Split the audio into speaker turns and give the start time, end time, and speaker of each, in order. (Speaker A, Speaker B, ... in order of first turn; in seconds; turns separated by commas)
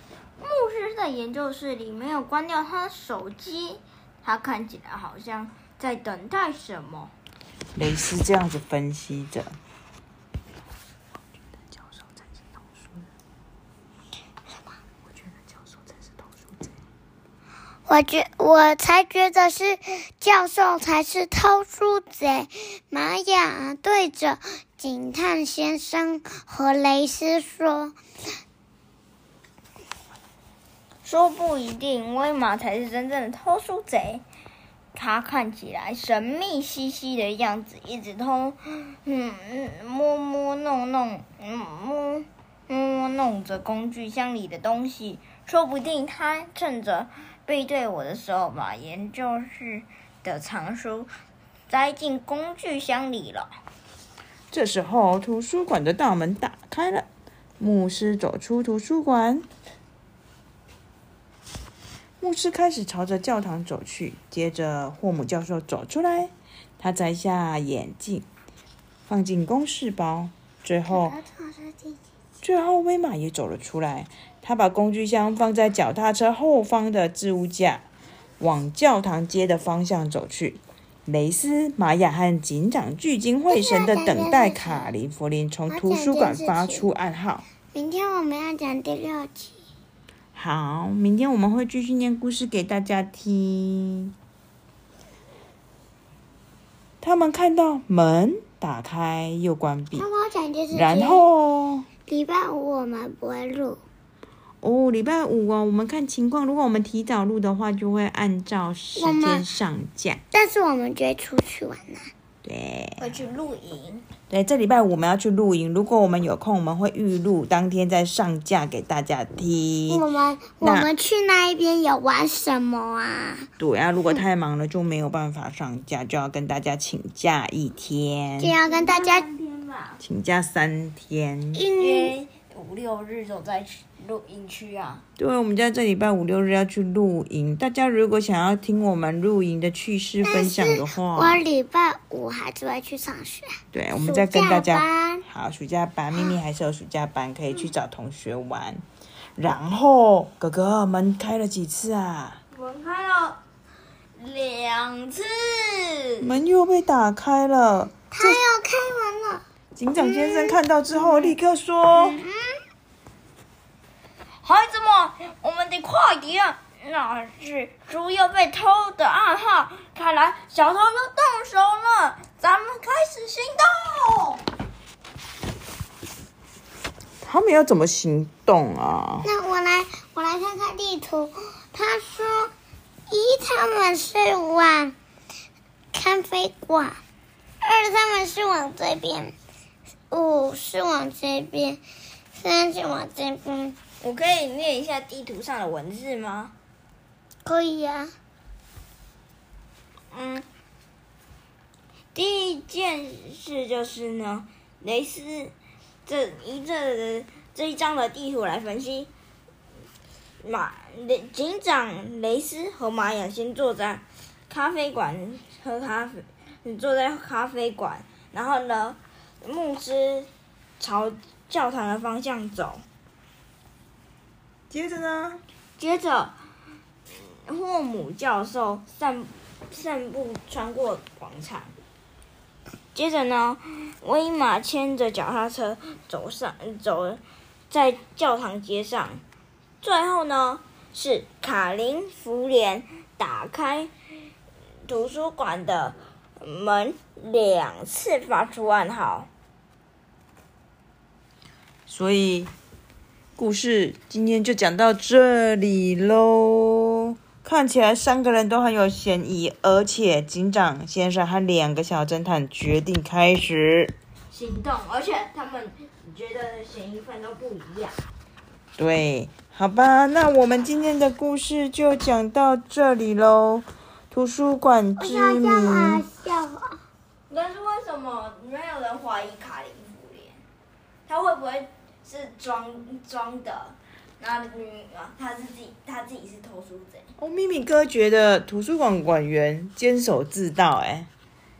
Speaker A: 0.4-7.1, Speaker B: 7.8-9.6, Speaker B: 11.8-12.2, Speaker B: 15.2-16.1, Speaker C: 17.9-28.0, Speaker A: 31.0-34.2, Speaker A: 34.9-51.1, Speaker A: 51.7-53.5, Speaker B: 54.5-57.1, Speaker B: 57.6-59.5, Speaker B: 62.2-68.3, Speaker B: 69.1-71.2, Speaker C: 70.9-72.0, Speaker B: 72.4-77.8, Speaker B: 78.4-87.5, Speaker C: 83.5-84.9, Speaker C: 85.7-86.9, Speaker C: 87.7-89.6, Speaker B: 90.3-94.1, Speaker B: 97.0-100.1, Speaker C: 100.0-101.2, Speaker B: 100.7-101.9, Speaker C: 102.1-103.8, Speaker B: 104.6-110.2, Speaker C: 109.0-109.5, Speaker C: 110.3-112.1, Speaker B: 112.4-113.1, Speaker A: 113.0-114.0, Speaker B: 114.3-120.0, Speaker C: 119.9-123.5, Speaker B: 120.6-120.9, Speaker B: 123.6-128.6, Speaker C: 128.4-129.3, Speaker A: 128.7-130.0, Speaker B: 130.0-131.6, Speaker C: 131.6-132.2, Speaker A: 131.8-135.0, Speaker B: 135.2-141.4, Speaker C: 140.2-145.3, Speaker B: 143.7-148.8, Speaker B: 149.4-152.4, Speaker A: 152.5-153.4, Speaker A: 154.2-156.3, Speaker B: 156.2-158.4, Speaker C: 158.1-159.4, Speaker B: 159.8-162.2, Speaker C: 160.0-160.6, Speaker C: 161.9-162.6, Speaker A: 164.4-174.4, Speaker B: 177.2-179.3, Speaker C: 179.2-182.5, Speaker C: 183.1-184.9, Speaker C: 185.9-187.0, Speaker C: 187.6-189.3, Speaker C: 190.1-191.8, Speaker C: 192.4-193.8, Speaker A: 194.0-196.5, Speaker C: 197.4-198.1, Speaker A: 200.1-200.5, Speaker A: 202.2-205.5, Speaker A: 206.1-209.1, Speaker A: 210.4-220.3, Speaker A: 220.8-222.8, Speaker B: 224.7-225.4, Speaker A: 225.8-226.3, Speaker A: 227.1-231.7, Speaker A: 232.9-239.2, Speaker A: 239.8-243.9, Speaker A: 244.9-249.3, Speaker B: 251.9-252.5, Speaker B: 253.4-263.9, Speaker A: 264.3-268.0, Speaker B: 268.8-276.0, Speaker C: 275.0-276.8, Speaker A: 277.3-280.4, Speaker A: 281.1-287.1, Speaker B: 287.2-291.1